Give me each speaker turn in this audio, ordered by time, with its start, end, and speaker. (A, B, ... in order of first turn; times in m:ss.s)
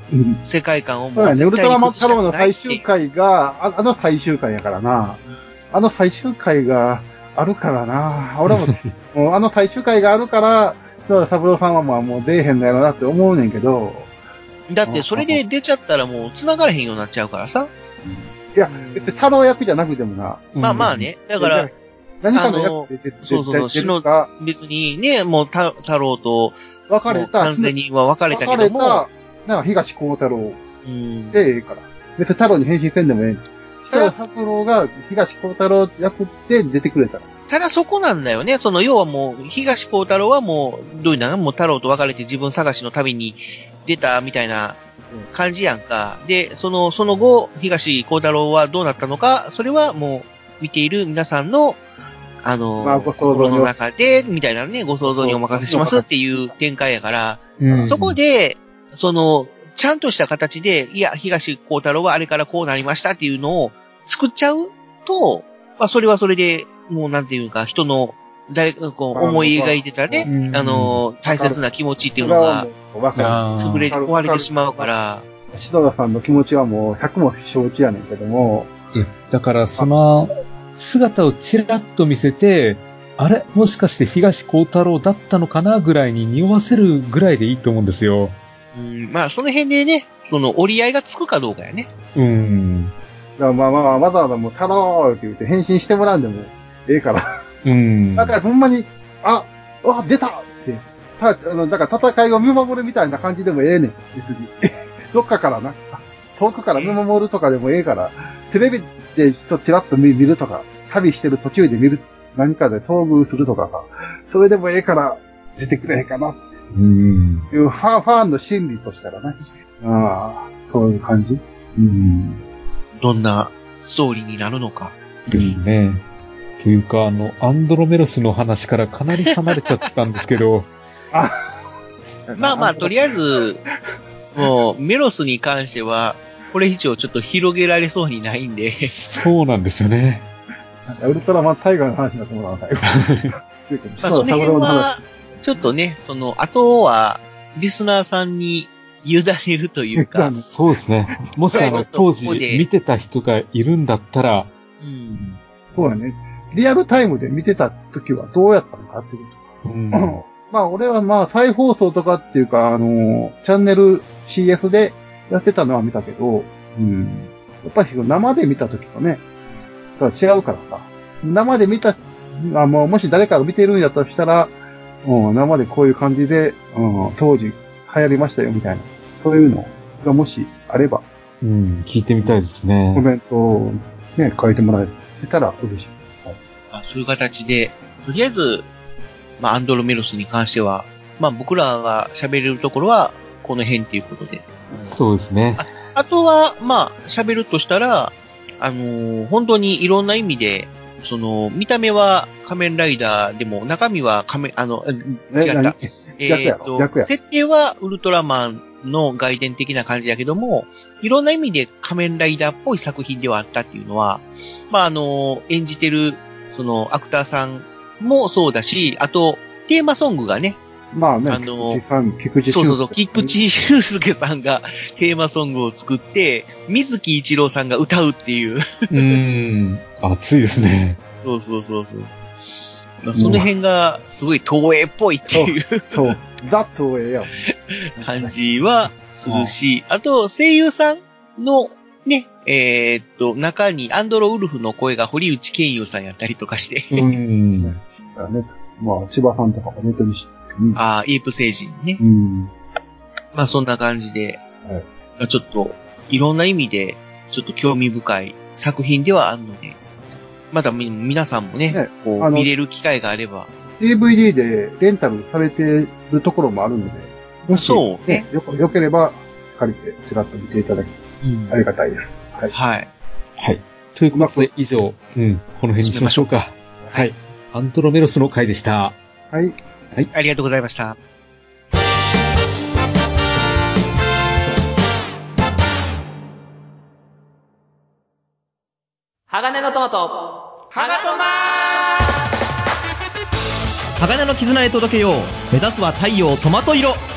0:00.1-0:00.4 A
0:00.4-0:02.8 B
0:01.2-0:14.1 A
0:08.5-0:08.9 C
0:14.7-0:17.7 B
0:14.9-0:15.4 A
0:18.0-0:24.3 A
0:18.7-0:19.2 B
0:20.6-0:21.1 C
0:20.6-0:21.7 B
0:22.3-0:29.0 B
0:26.9-0:27.8 A
0:28.3-0:30.6 A
0:30.8-0:31.4 B
0:31.3-0:37.3 A
0:37.5-0:44.8 B
0:45.3-0:51.8 B
0:52.4-1:12.7 B
0:52.8-0:53.7 A
0:55.0-0:56.5 A
0:57.6-0:58.2 C
0:57.6-0:58.0 A
1:09.1-1:10.4 A
1:10.2-1:11.0 C
1:11.2-1:11.6 A
1:12.2-1:14.9 A
1:13.2-1:13.9 C
1:13.6-1:15.3 B
1:15.5-1:18.7 A
1:18.9-1:28.4 C
1:28.7-1:31.9 B
1:32.2-1:32.9 C
1:33.4-1:37.2 A
1:37.6-1:38.4 C
1:38.2-1:56.4 A
1:46.8-1:47.0 B
1:56.7-1:57.5 C
1:57.5-2:02.4 A
2:03.0-2:05.0 B
2:05.3-2:05.6 A
2:05.3-2:06.0 C
2:06.6-2:10.7 C
2:11.1-2:11.5 A
2:12.3-2:13.2 A
2:12.4-2:13.6 B
2:14.4-2:18.9 B
2:18.9-2:20.3 C
2:20.9-2:24.9 A
2:22.9-2:23.3 C
2:24.0-2:30.4 B
2:30.0-2:30.5 A
2:30.4-2:34.5 C
2:31.5-2:31.8 A
2:31.5-2:32.7 B
2:34.8-2:35.4 B
2:35.7-2:49.2 A
2:39.6-2:40.2 C
2:50.0-3:01.0 A
3:01.4-3:03.1 C
3:02.9-3:06.4 A
3:06.7-3:08.7 B
3:09.4-3:14.4 B
3:14.9-3:15.7 C
3:15.6-3:40.6 B
3:25.3-3:27.1 A
3:40.9-3:43.4 A
3:41.3-3:41.8 B
3:42.5-3:48.6 B
3:48.9-3:51.0 C
3:51.2-3:52.1 B
3:53.0-3:56.2 B
3:53.2-3:53.5 A
3:55.3-3:57.4 A
3:58.0-4:07.0 B
3:58.0-3:58.4 A
4:06.9-4:07.8 C
4:07.6-4:10.8 A
4:10.8-4:12.0 B
4:12.0-4:12.5 A
4:13.3-4:14.4 B
4:15.2-4:19.8 B
4:20.5-4:23.5 B
4:21.7-4:22.5 A
4:23.8-4:31.0 A
4:27.5-4:28.3 B
4:31.2-4:31.6 B
4:31.5-4:32.5 A
4:32.5-4:32.9 B
4:33.4-4:39.0 C
4:34.1-4:34.5 A
4:35.8-4:37.1 B
4:39.3-4:39.6 A
4:40.1-4:41.0 B
4:49.3-4:52.0 D
4:54.0-4:57.0 E